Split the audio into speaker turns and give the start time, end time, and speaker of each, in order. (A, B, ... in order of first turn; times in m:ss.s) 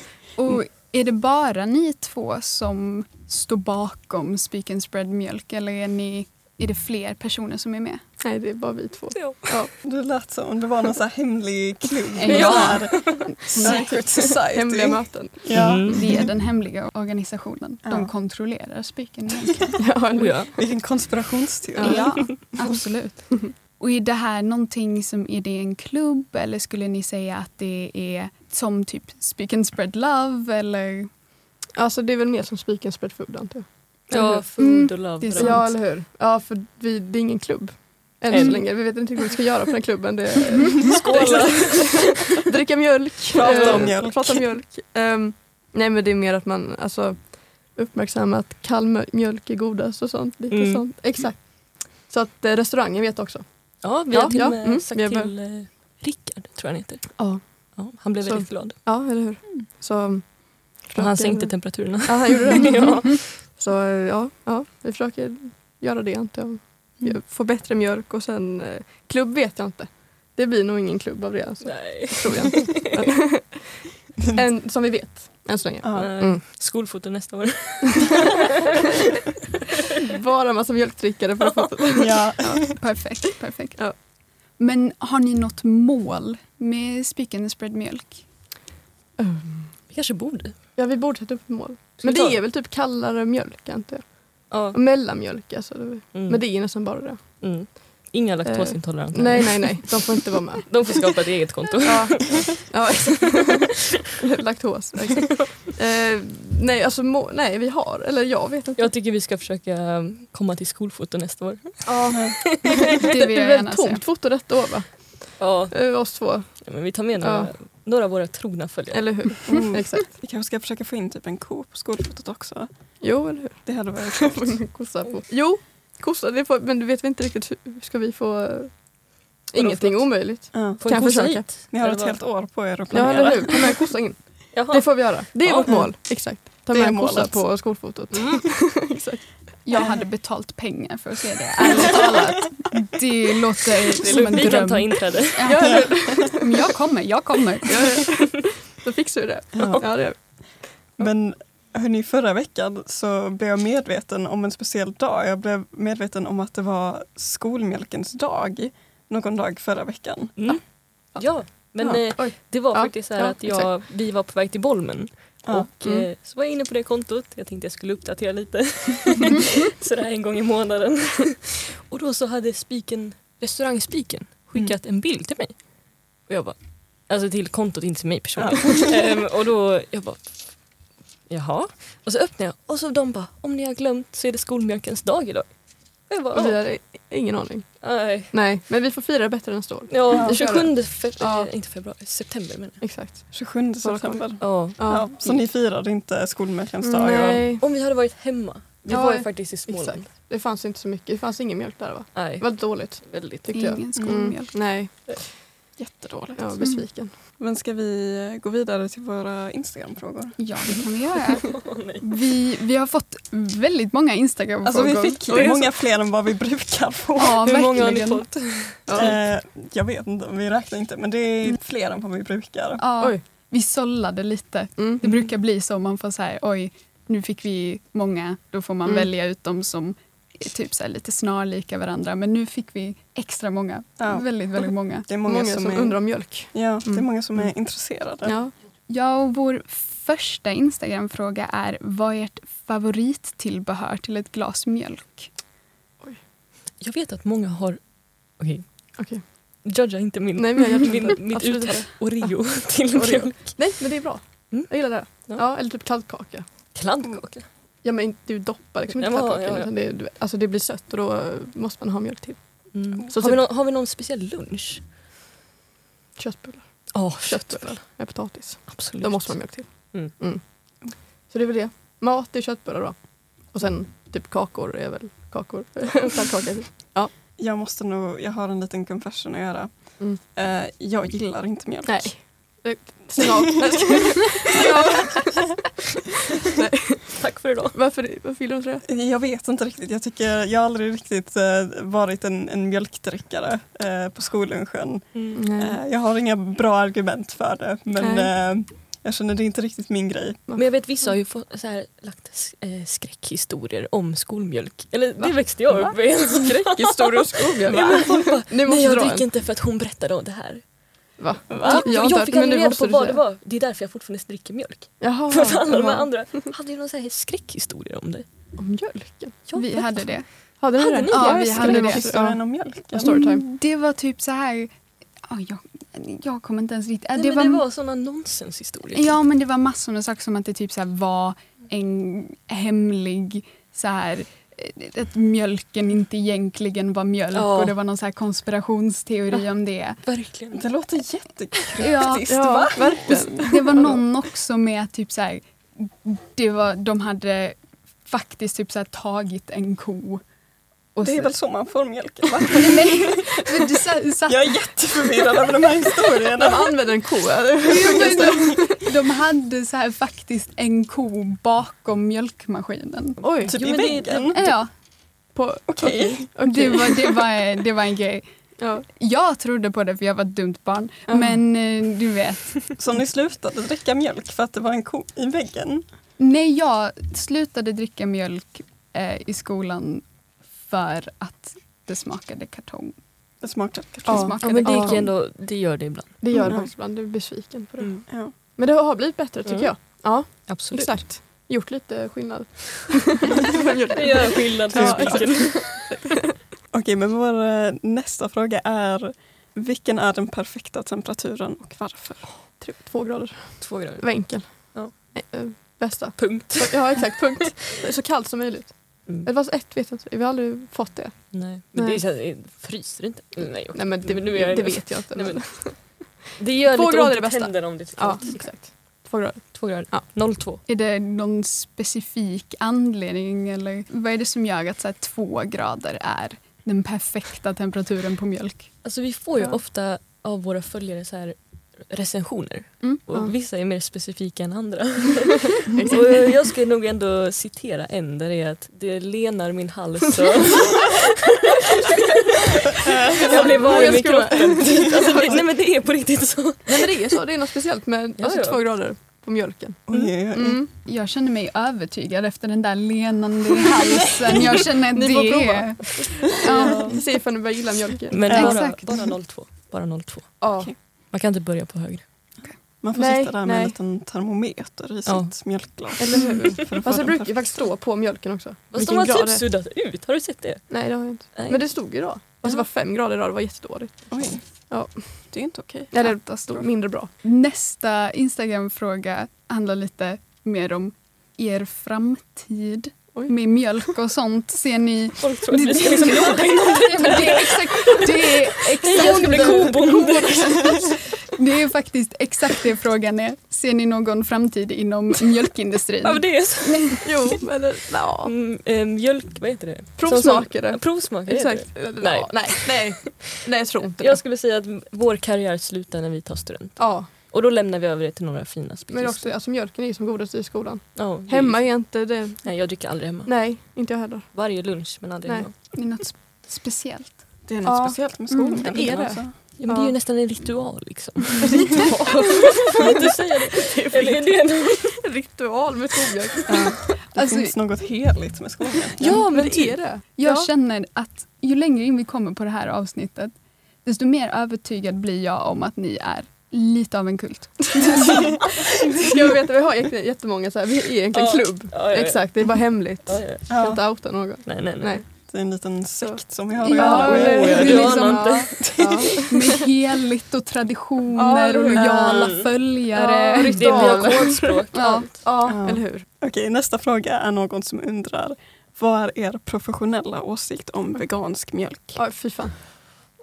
0:00.4-0:08.0 A
0:08.2-0:09.7 B
0:09.1-0:09.7 C
0:09.8-0:16.2 D
0:12.1-0:14.2 A
0:12.3-0:13.2 C
0:13.5-0:15.4 B
0:15.5-0:16.2 C
0:15.7-0:19.8 A
0:17.8-0:18.1 D
0:19.8-0:20.6 B
0:20.2-0:20.6 C
0:20.6-0:22.4 D
0:21.8-0:31.1 A
0:31.7-0:34.4 B
0:34.1-0:35.7 C
0:34.6-0:35.8 A
0:35.3-0:55.4 B
0:38.3-0:39.1 C
0:40.7-0:42.4 C
0:43.3-0:44.4 D
0:43.4-0:44.1 C
0:50.5-0:50.9 C
0:53.8-0:59.1 C
0:57.2-1:16.4 B
1:00.9-1:03.4 C
1:11.6-1:12.9 C
1:15.8-1:16.1 D
1:16.0-1:18.3 C
1:20.0-1:23.1 B
1:22.0-1:22.8 D
1:22.8-1:23.9 A
1:24.5-1:28.2 A
1:29.2-1:29.8 B
1:29.9-1:30.6 C
1:30.8-1:41.0 B
1:32.0-1:32.4 C
1:34.5-1:34.8 C
1:36.1-1:40.0 C
1:40.7-1:42.7 C
1:41.8-1:48.9 B
1:48.8-1:52.8 C
1:51.8-1:57.5 B
1:53.0-1:54.0 A
1:55.4-1:59.6 C
1:58.9-2:00.1 B
1:59.5-2:04.7 D
2:03.0-2:11.5 B
2:09.5-2:13.8 C
2:10.5-2:10.9 D
2:11.7-2:13.7 D
2:12.9-2:19.6 B
2:14.5-2:16.0 C
2:16.7-2:17.4 D
2:18.1-2:18.4 C
2:19.6-2:27.9 A
2:24.0-2:25.6 C
2:25.4-2:26.6 B
2:27.6-2:30.7 B
2:29.5-2:30.0 D
2:31.0-2:40.5 D
2:40.4-3:06.7 C
2:41.2-2:43.8 B
2:45.8-2:46.1 B
2:58.4-2:58.7 D
3:06.3-3:11.5 B
3:07.8-3:08.4 C
3:09.9-3:12.8 C
3:12.8-3:15.2 B
3:13.3-3:17.5 D
3:14.4-3:15.4 C
3:16.8-3:17.6 B
3:17.6-3:20.1 C
3:18.9-3:25.7 B
3:22.1-3:23.8 C
3:23.5-3:24.6 A
3:24.0-3:24.3 D
3:25.8-3:30.4 D
3:26.4-3:27.1 B
3:26.6-3:26.8 A
3:30.4-3:35.2 A
3:31.5-3:32.1 C
3:34.6-3:37.4 D
3:35.2-3:35.8 B
3:37.2-3:38.3 A
3:37.4-3:39.1 C
3:38.9-3:39.1 B
3:38.9-3:42.8 D
3:42.8-3:55.1 A
3:44.8-3:45.2 B
3:54.0-3:58.4 D
3:55.2-3:57.1 B
3:58.2-3:58.5 B
3:58.9-4:05.3 A
4:06.8-4:08.6 C
4:09.0-4:09.2 B
4:09.2-4:14.0 C
4:10.4-4:16.5 B
4:14.5-4:15.4 C
4:16.7-4:17.5 C
4:17.8-4:23.5 B
4:18.9-4:19.7 C
4:22.7-4:24.8 C
4:26.2-4:37.1 B
4:26.9-4:30.2 C
4:37.4-4:42.3 D
4:41.8-4:45.6 B
4:46.4-4:48.8 B
4:47.2-4:47.8 C
4:48.9-5:00.4 D
4:55.1-4:55.4 C
4:55.4-4:55.8 B
4:58.0-4:58.3 B
5:00.6-5:10.8 C
5:05.2-5:09.2 B
5:11.2-5:13.2 B
5:11.5-5:18.2 C
5:15.0-5:16.5 B
5:18.6-5:19.5 B
5:19.5-5:20.1 C
5:19.5-5:22.2 A
5:20.6-5:23.4 B
5:20.8-5:21.6 C
5:21.5-5:23.3 D
5:23.0-5:24.7 A
5:25.2-5:27.6 A
5:27.1-5:29.2 C
5:28.9-5:40.0 A
5:37.3-5:37.8 C
5:40.0-5:40.6 C
5:40.5-5:43.5 D
5:41.8-5:42.3 A
5:42.2-5:44.0 B
5:42.9-5:50.2 A
5:50.9-5:51.3 A
5:51.0-5:53.3 D
5:52.5-5:55.4 A
5:54.3-5:56.7 D
5:56.1-5:58.7 B
5:57.6-6:03.2 A
6:03.2-6:03.5 B
6:03.4-6:04.5 C
6:03.5-6:04.5 D
6:04.3-6:04.7 A
6:05.3-6:06.9 B
6:05.7-6:06.3 D
6:06.4-6:08.3 A
6:08.6-6:08.8 B
6:08.9-6:12.7 A
6:11.1-6:11.4 D
6:12.8-6:15.8 D
6:16.2-6:22.9 A
6:23.4-6:24.3 D
6:24.0-6:25.1 A
6:24.1-6:25.2 B
6:24.4-6:26.2 C
6:26.2-6:36.2 B
6:26.3-6:26.7 D
6:27.8-6:28.0 C
6:28.1-6:28.3 D
6:29.4-6:31.1 C
6:33.9-6:36.0 C
6:34.7-6:35.6 D
6:36.7-6:42.3 D
6:42.6-6:52.1 B
6:43.6-6:47.1 C
6:51.3-7:00.6 C
6:53.7-6:56.1 B
6:56.6-7:00.1 B
7:00.6-7:08.7 A
7:08.8-7:27.1 C
7:15.7-7:16.0 B
7:23.1-7:24.0 D
7:23.2-7:25.5 B
7:26.6-7:30.7 B
7:28.2-7:28.7 C
7:29.9-7:30.6 D
7:30.8-7:37.0 A
7:34.9-7:38.7 B
7:36.5-7:37.0 C
7:38.1-7:42.0 C
7:38.3-7:39.0 A
7:38.3-7:39.1 D
7:40.4-7:40.7 B
7:42.8-7:47.5 D
7:42.9-7:43.8 B
7:45.0-7:46.3 C
7:46.0-7:49.6 B
7:48.7-7:52.6 C
7:50.7-7:54.1 B
7:54.1-7:55.9 D
7:54.7-7:57.1 B
7:56.0-8:17.0 A
8:05.2-8:10.7 C
8:08.9-8:10.1 B
8:16.0-8:17.3 C
8:17.0-8:18.3 B
8:18.2-8:23.2 C
8:20.0-8:24.2 B
8:23.9-8:29.3 C
8:26.8-8:27.1 B
8:28.9-8:35.5 B
8:30.9-8:33.6 C
8:34.3-8:35.5 C
8:35.7-8:37.3 A
8:37.4-8:39.3 D
8:37.6-8:40.0 B
8:38.3-8:38.7 A
8:38.7-8:45.0 C
8:41.4-8:46.7 B
8:46.5-8:46.7 C
8:46.5-8:49.2 D
8:47.0-8:47.6 A
8:49.0-8:50.5 B
8:49.1-8:49.8 C
8:50.1-8:58.4 A
8:59.0-9:05.0 B
9:01.1-9:03.5 C
9:03.5-9:03.8 D
9:04.4-9:05.1 C
9:05.2-9:08.0 D
9:06.0-9:09.6 B
9:06.6-9:15.1 A
9:07.2-9:08.8 C
9:08.6-9:09.1 D
9:11.1-9:12.2 B
9:11.7-9:12.4 D
9:12.1-9:12.5 C
9:12.9-9:16.0 B
9:13.4-9:15.2 C
9:15.4-9:22.0 D
9:22.0-9:22.8 B